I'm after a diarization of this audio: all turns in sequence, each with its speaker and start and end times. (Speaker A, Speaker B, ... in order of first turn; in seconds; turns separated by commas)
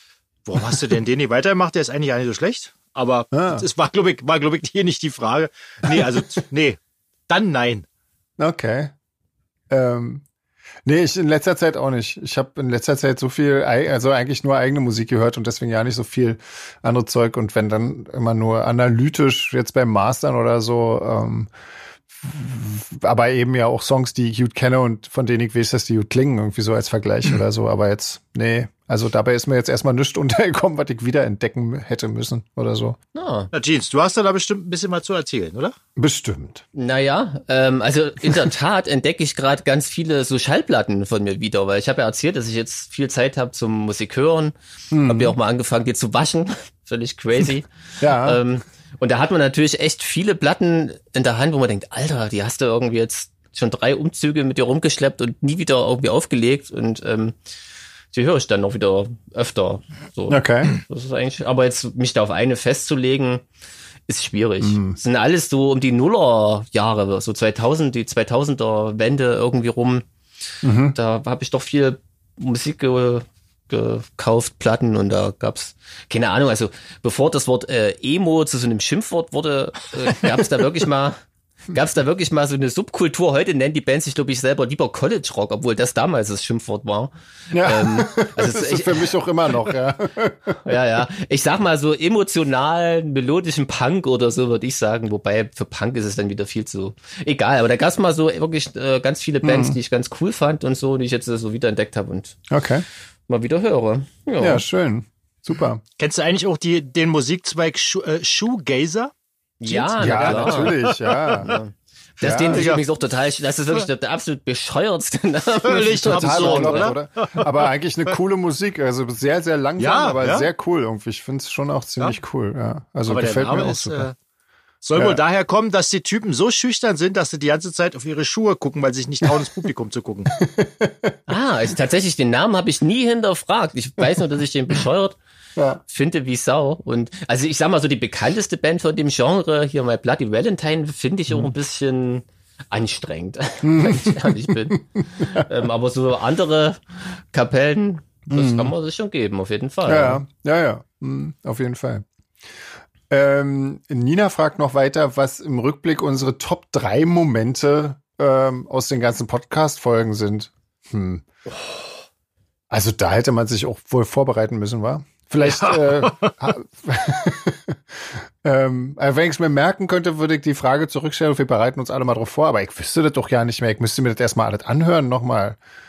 Speaker A: 0.5-7.9, Speaker B: 3.3-3.6, Speaker B: 8.4-8.9, Speaker B: 9.7-10.2, Speaker B: 10.8-21.5, Speaker B: 22.2-33.0, Speaker C: 33.1-33.5, Speaker A: 33.5-35.8, Speaker B: 36.0-36.6, Speaker C: 36.7-57.4, Speaker B: 44.9-45.4, Speaker B: 48.0-48.4, Speaker C: 58.1-63.4, Speaker B: 60.3-60.7, Speaker C: 64.1-70.0, Speaker B: 64.6-65.0, Speaker B: 70.6-71.0, Speaker C: 70.9-81.2, Speaker C: 81.7-89.1, Speaker B: 87.5-90.6, Speaker C: 90.6-102.4, Speaker B: 99.4-99.8, Speaker B: 102.5-102.8, Speaker C: 103.3-104.7, Speaker B: 104.4-105.8, Speaker A: 106.0-109.1, Speaker C: 109.6-117.0, Speaker A: 109.7-111.3, Speaker B: 110.0-111.6, Speaker B: 112.2-112.7, Speaker A: 112.2-112.8, Speaker A: 115.6-117.5, Speaker B: 116.0-124.1, Speaker A: 119.8-120.5, Speaker A: 123.1-124.2, Speaker A: 124.8-130.3, Speaker B: 125.0-125.2, Speaker B: 130.3-131.2, Speaker C: 131.3-135.2, Speaker B: 135.6-135.8, Speaker C: 135.9-146.8, Speaker B: 143.6-145.5, Speaker C: 147.3-150.2, Speaker B: 148.3-148.7, Speaker B: 149.9-152.1, Speaker B: 153.1-161.2, Speaker B: 162.7-175.6, Speaker A: 165.4-166.3